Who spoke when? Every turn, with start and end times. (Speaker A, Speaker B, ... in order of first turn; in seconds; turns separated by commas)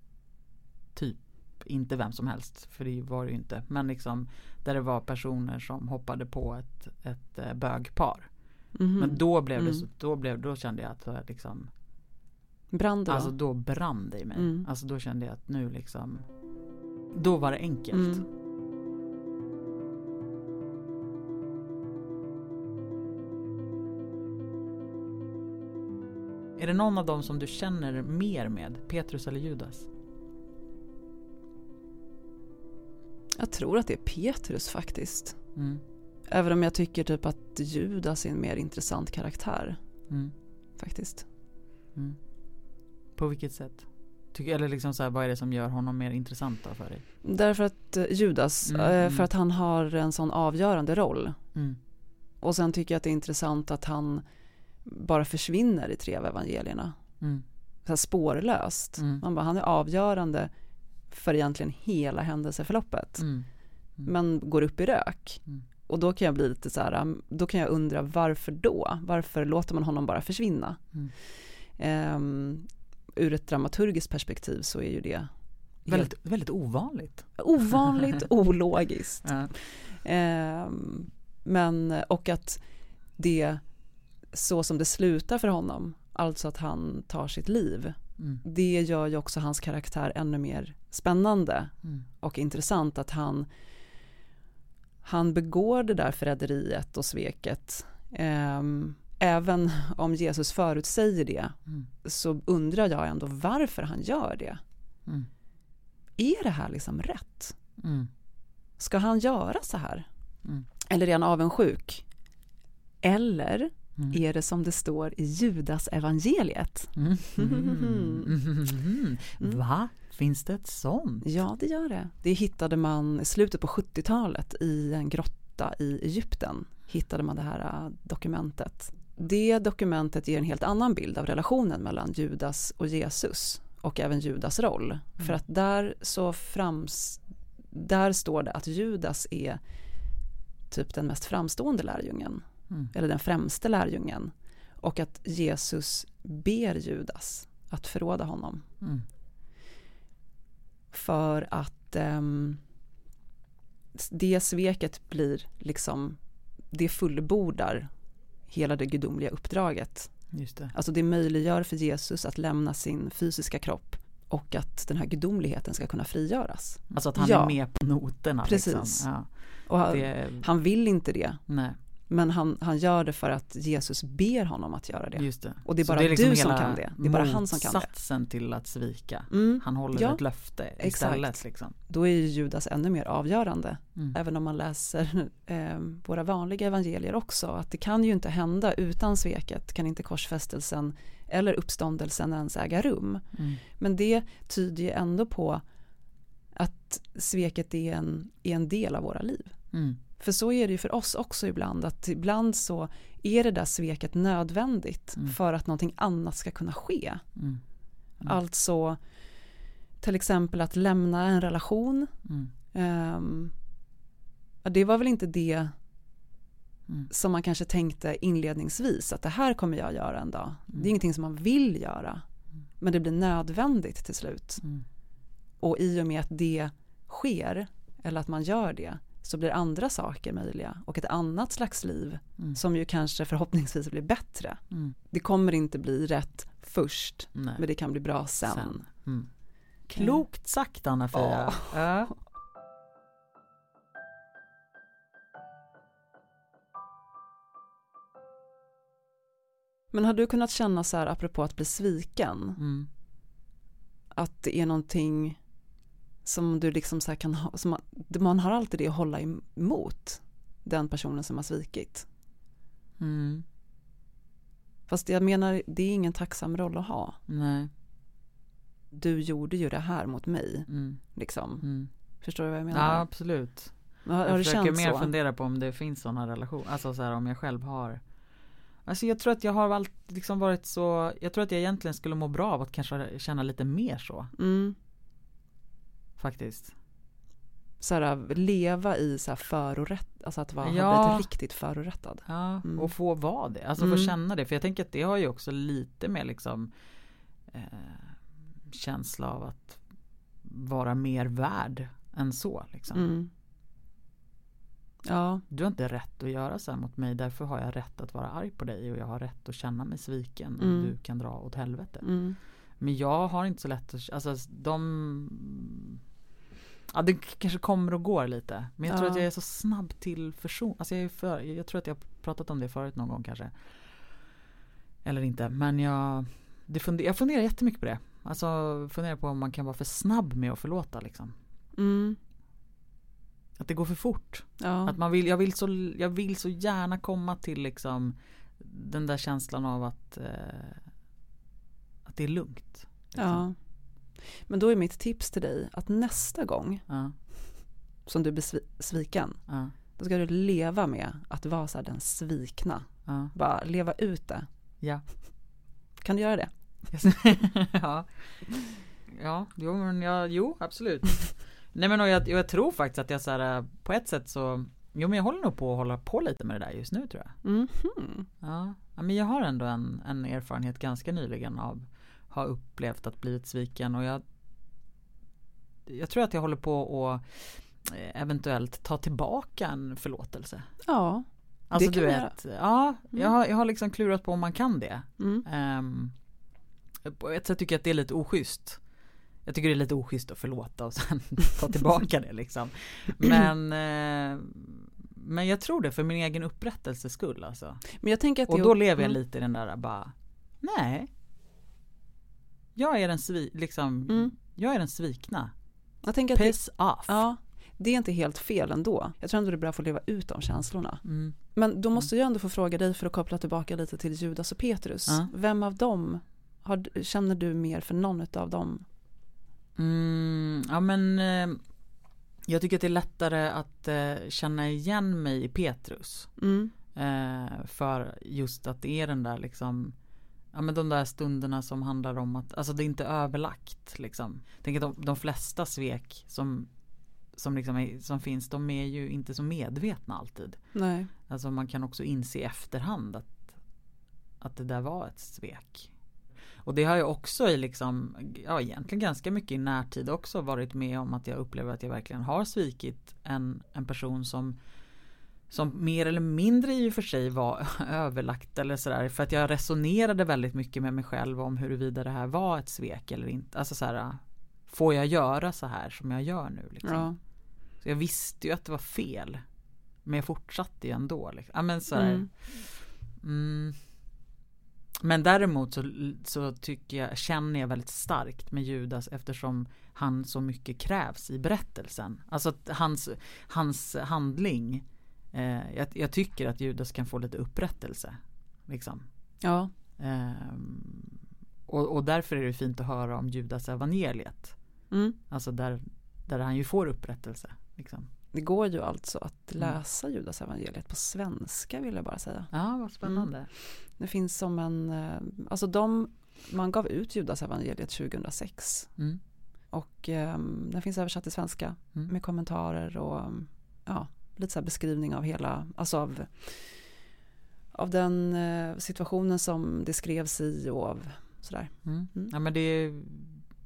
Speaker A: 0.9-8.3, Speaker B: 8.7-9.8, Speaker A: 9.0-11.7, Speaker B: 12.7-13.3, Speaker A: 13.1-16.2, Speaker B: 14.3-14.7, Speaker A: 17.1-18.2, Speaker B: 17.9-18.2, Speaker A: 26.6-29.9, Speaker B: 33.4-35.4, Speaker A: 35.5-35.8, Speaker B: 36.3-39.8, Speaker B: 40.8-41.2, Speaker A: 43.2-47.0, Speaker B: 47.2-51.4, Speaker A: 48.6-49.3, Speaker B: 52.4-54.2, Speaker B: 54.8-57.0, Speaker B: 57.9-60.5, Speaker A: 59.0-59.2, Speaker B: 61.1-63.2, Speaker A: 63.2-63.5, Speaker B: 64.0-70.8, Speaker B: 71.8-75.3, Speaker B: 75.8-76.1, Speaker A: 75.9-78.2, Speaker B: 77.4-82.6, Speaker A: 79.2-79.5, Speaker B: 83.2-83.6, Speaker B: 84.3-93.5, Speaker B: 95.0-104.6, Speaker B: 106.2-107.5, Speaker A: 107.8-108.1, Speaker B: 108.8-110.1, Speaker B: 110.8-112.0, Speaker B: 113.0-118.3, Speaker A: 117.0-121.3, Speaker B: 121.2-139.6, Speaker B: 140.7-148.6, Speaker B: 150.9-152.6, Speaker B: 153.9-156.2, Speaker B: 156.7-157.9, Speaker B: 158.5-160.1, Speaker A: 160.3-160.7, Speaker B: 160.7-167.6, Speaker A: 166.9-169.3, Speaker B: 168.4-169.1, Speaker B: 169.7-171.4, Speaker A: 169.8-170.5, Speaker A: 171.5-171.8, Speaker B: 172.1-177.9, Speaker A: 175.2-181.7, Speaker B: 179.3-180.2, Speaker B: 180.8-181.4, Speaker B: 181.9-195.6, Speaker A: 193.3-193.6, Speaker B: 196.5-199.5, Speaker A: 199.7-200.0, Speaker B: 200.2-207.2, Speaker B: 208.2-209.0, Speaker B: 210.0-212.1, Speaker B: 212.7-213.5, Speaker B: 214.6-215.7, Speaker B: 217.1-222.2, Speaker B: 222.8-224.6, Speaker B: 225.6-238.8, Speaker A: 237.3-237.6, Speaker A: 238.4-239.3, Speaker A: 239.9-242.1, Speaker B: 241.1-241.7, Speaker B: 249.9-252.6, Speaker A: 252.6-252.9, Speaker B: 254.1-255.4, Speaker B: 256.2-262.1, Speaker A: 263.0-263.4, Speaker B: 264.9-267.2, Speaker A: 267.3-267.7, Speaker B: 268.9-271.6, Speaker A: 270.7-271.0, Speaker A: 271.6-271.9, Speaker B: 272.2-273.0, Speaker A: 272.7-273.7, Speaker B: 274.0-275.1, Speaker A: 274.2-278.0, Speaker A: 278.9-284.3, Speaker B: 284.4-284.8, Speaker A: 286.2-286.7, Speaker B: 287.8-292.9, Speaker A: 290.6-291.3, Speaker A: 292.3-296.7, Speaker B: 293.8-294.1, Speaker A: 297.5-298.2, Speaker A: 298.7-299.8, Speaker A: 300.4-303.1, Speaker B: 302.9-303.3, Speaker B: 305.0-305.4, Speaker A: 305.5-312.1, Speaker B: 310.6-310.9, Speaker B: 312.0-312.4, Speaker A: 312.8-316.0, Speaker A: 316.9-323.5, Speaker B: 318.9-319.2, Speaker A: 325.0-331.3, Speaker B: 331.8-332.2, Speaker A: 333.6-340.8, Speaker B: 334.6-334.9, Speaker A: 342.1-343.4, Speaker B: 343.1-343.5, Speaker B: 344.4-346.8, Speaker A: 346.9-347.1, Speaker B: 348.1-349.4, Speaker A: 349.5-349.7, Speaker B: 349.9-354.5, Speaker A: 353.1-353.3, Speaker B: 356.0-356.5, Speaker A: 356.9-367.4, Speaker B: 367.4-368.3, Speaker A: 368.4-374.2, Speaker A: 375.9-380.7, Speaker B: 380.8-382.3, Speaker A: 381.7-386.1, Speaker B: 385.2-385.4, Speaker A: 387.1-388.8, Speaker A: 389.4-397.8, Speaker B: 397.9-399.2, Speaker A: 398.5-401.1, Speaker A: 402.8-405.5, Speaker B: 406.0-411.0, Speaker A: 406.3-407.2, Speaker A: 411.0-411.3, Speaker B: 411.5-418.8, Speaker A: 419.8-421.6, Speaker A: 422.5-426.3, Speaker B: 426.4-426.7, Speaker A: 426.9-429.9, Speaker A: 430.5-436.7, Speaker A: 437.3-440.6, Speaker B: 440.7-441.1, Speaker A: 441.3-443.5, Speaker A: 444.4-445.9, Speaker A: 446.6-454.6, Speaker A: 455.5-467.1, Speaker B: 466.8-467.2, Speaker A: 467.8-469.4, Speaker A: 470.0-472.7, Speaker B: 471.9-472.3, Speaker A: 473.2-473.8, Speaker A: 475.0-489.1, Speaker B: 489.4-489.7, Speaker A: 490.0-494.6, Speaker B: 494.9-495.2, Speaker A: 495.3-498.1, Speaker B: 498.3-502.5, Speaker A: 502.5-503.5, Speaker B: 503.0-503.3, Speaker B: 504.0-508.9, Speaker B: 509.7-516.8, Speaker B: 517.7-522.3, Speaker A: 521.8-523.4